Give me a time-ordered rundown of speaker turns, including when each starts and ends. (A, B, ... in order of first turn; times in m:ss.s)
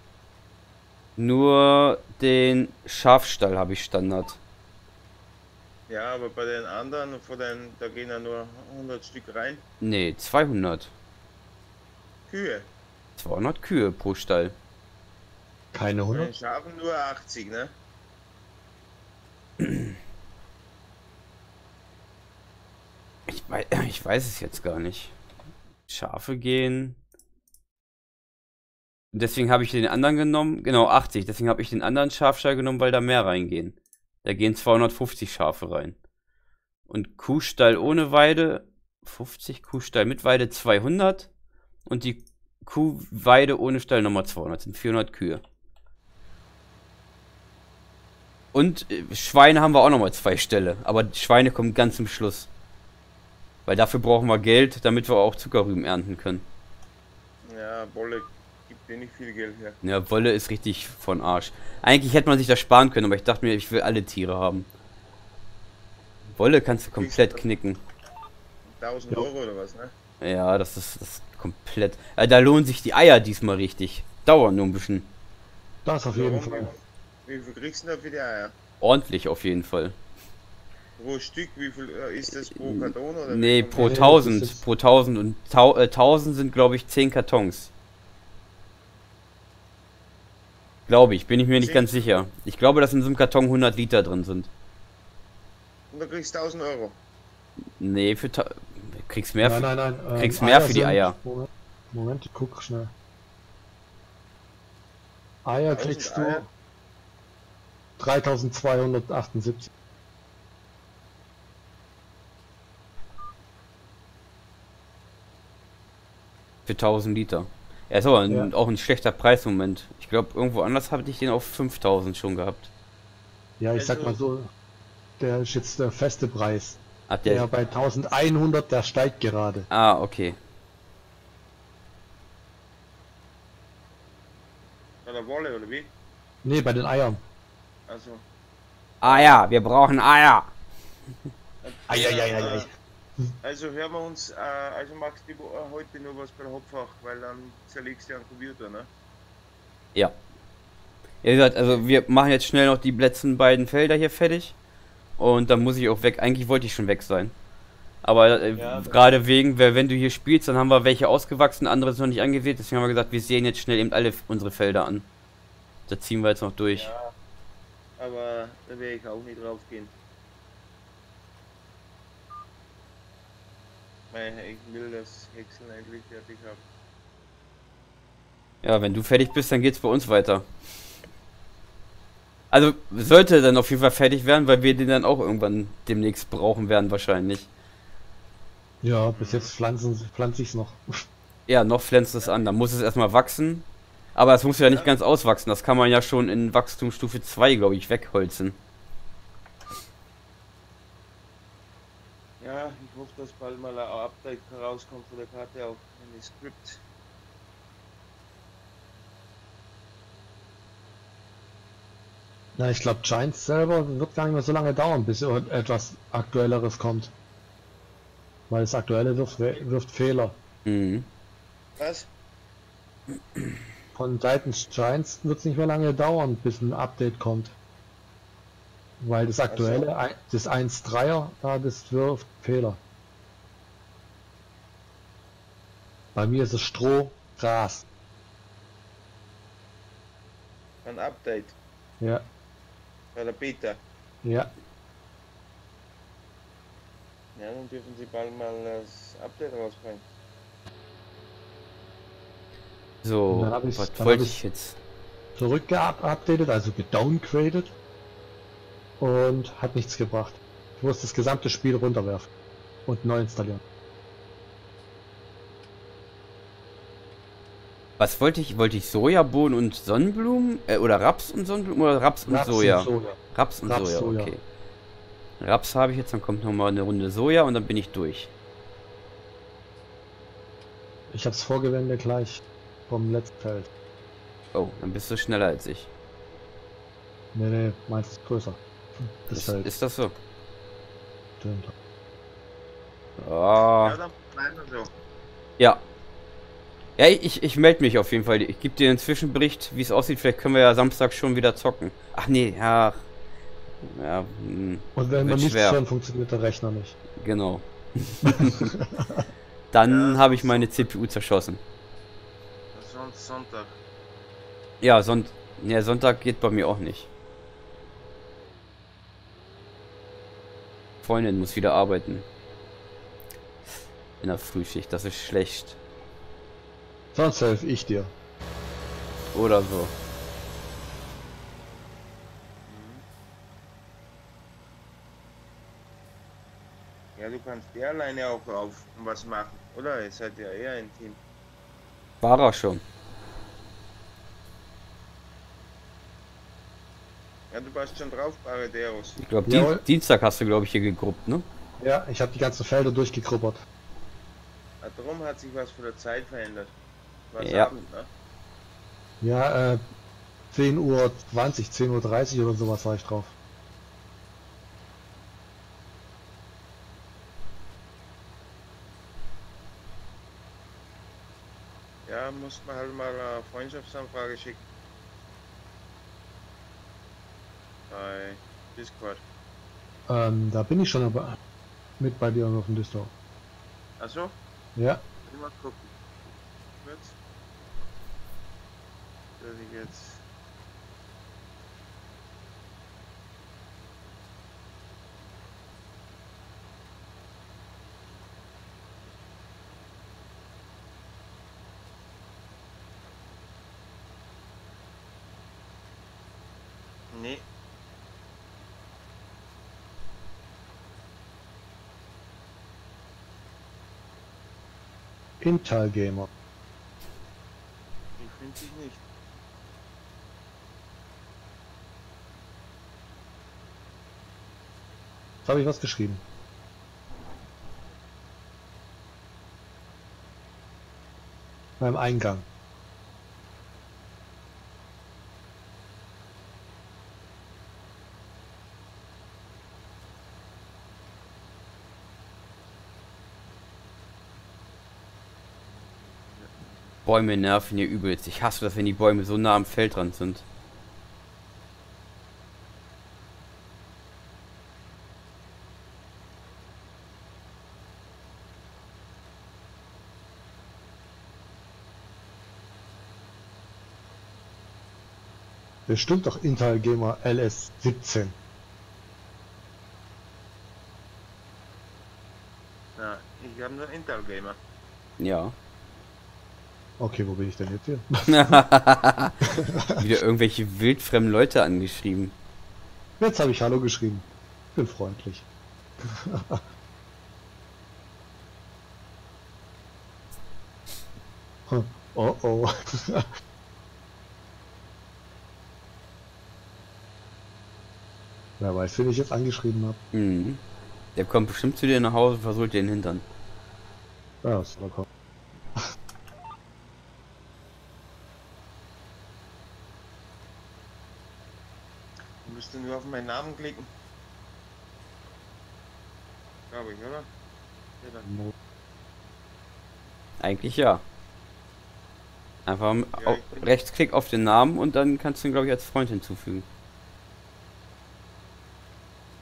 0:01.2-0:04.4 A
0:05.9-0:09.6 B
0:09.8-0:10.9 A
0:12.3-0:12.7 B
0:13.2-0:14.6 A
0:15.7-0:16.3 C
0:16.1-0:17.8 B
0:19.6-0:19.9 A
0:23.3-0:25.2 A
0:25.9-0:27.0 A
0:29.1-0:36.0 A
0:36.9-0:41.3 A
0:41.9-0:45.4 A
0:48.5-0:52.5 A
0:53.7-0:56.4 A
0:57.4-0:59.8 B
0:59.8-1:04.7 A
1:06.4-1:07.8 A
1:07.0-1:07.4 B
1:08.7-1:09.9 B
1:10.2-1:15.1 A
1:15.8-1:16.7 C
1:16.1-1:18.5 B
1:18.8-1:20.0 A
1:21.0-1:24.0 B
1:22.5-1:27.7 A
1:23.8-1:24.6 C
1:30.9-1:34.5 A
1:31.6-1:32.1 B
1:35.9-1:37.0 B
1:37.8-1:41.2 A
1:39.4-1:42.9 C
1:45.4-1:46.5 C
1:45.7-1:46.4 B
1:48.0-1:49.7 C
1:56.7-2:02.7 A
2:03.6-2:04.5 C
2:03.8-2:04.2 B
2:05.2-2:09.7 C
2:07.1-2:07.5 A
2:09.7-2:10.4 A
2:15.0-2:15.9 B
2:16.4-2:17.2 C
2:17.9-2:18.2 B
2:19.0-2:20.5 A
2:19.0-2:19.4 B
2:21.6-2:22.7 B
2:21.9-2:22.7 C
2:23.4-2:28.9 B
2:31.2-2:34.6 A
2:35.2-2:37.3 A
2:38.0-2:45.1 A
2:38.6-2:39.0 B
2:45.9-2:46.9 A
2:46.7-2:47.1 B
2:48.0-2:49.9 B
2:54.1-2:56.6 B
2:58.6-3:00.4 A
3:02.5-3:07.5 A
3:08.8-3:10.8 C
3:09.1-3:09.5 B
3:11.5-3:18.6 A
3:12.2-3:12.5 B
3:14.7-3:14.9 B
3:22.4-3:26.8 B
3:32.6-3:37.1 C
3:38.5-3:40.4 C
3:40.6-3:41.1 A
3:41.8-3:42.1 B
3:44.0-3:47.5 C
3:49.0-3:52.8 C
3:49.5-3:49.9 B
3:56.2-3:57.8 C
4:00.8-4:01.6 B
4:02.0-4:02.2 C
4:03.2-4:03.8 B
4:04.2-4:04.5 C
4:07.4-4:10.0 B
4:13.0-4:14.8 A
4:13.3-4:14.4 C
4:15.4-4:17.7 C
4:19.0-4:22.3 C
4:22.9-4:23.6 C
4:28.0-4:34.4 A
4:32.3-4:34.3 C
4:35.4-4:38.3 A
4:41.1-4:43.7 C
4:44.5-4:45.9 A
4:47.4-4:48.6 C
4:49.2-4:49.7 C
4:49.3-4:50.1 A
4:51.4-4:51.7 C
4:53.2-4:54.0 A
4:53.8-4:54.9 B
4:57.0-5:03.0 A
5:03.8-5:05.8 A
5:05.0-5:07.0 C
5:07.2-5:08.7 A
5:08.5-5:09.2 C
5:09.7-5:11.6 A
5:09.9-5:10.9 B
5:12.7-5:13.8 B
5:14.8-5:17.1 A
5:21.0-5:22.3 A
5:24.2-5:25.8 A
5:27.1-5:28.1 C
5:29.3-5:29.9 A
5:32.7-5:33.0 B
5:37.2-5:41.2 B
5:42.2-5:42.8 A
5:47.5-5:49.2 B
5:49.2-5:51.4 A
5:49.5-5:49.8 C
5:51.8-5:53.6 C
5:54.8-5:56.7 B
5:57.3-5:58.1 B
5:57.4-5:57.7 A
5:59.2-5:59.8 C
6:00.5-6:03.3 C
6:12.1-6:14.6 B
6:17.9-6:19.2 B
6:20.1-6:21.4 C
6:22.0-6:23.1 C
6:24.0-6:24.4 B
6:24.8-6:25.0 C
6:25.2-6:27.2 B
6:29.4-6:30.2 B
6:47.1-6:47.4 B
6:55.4-6:56.3 C
6:58.2-6:59.0 B
7:05.4-7:06.2 C
7:11.8-7:12.5 C
7:27.1-7:30.4 A
7:45.9-7:48.4 C
7:53.0-7:54.6 B
7:55.2-7:55.5 A
7:57.0-7:58.6 C
7:58.3-7:59.3 A
7:59.4-8:00.0 C
8:00.0-8:02.3 A
8:03.2-8:05.5 C
8:06.1-8:06.6 C
8:11.7-8:13.3 C
8:18.6-8:20.0 C
8:20.1-8:20.6 A
8:21.2-8:23.2 A
8:24.4-8:25.1 C
8:32.4-8:33.9 B
8:36.7-8:37.3 B
8:38.0-8:38.3 B
8:38.2-8:38.5 C
8:40.4-8:41.0 A
8:42.7-8:46.7 A
8:43.2-8:43.7 B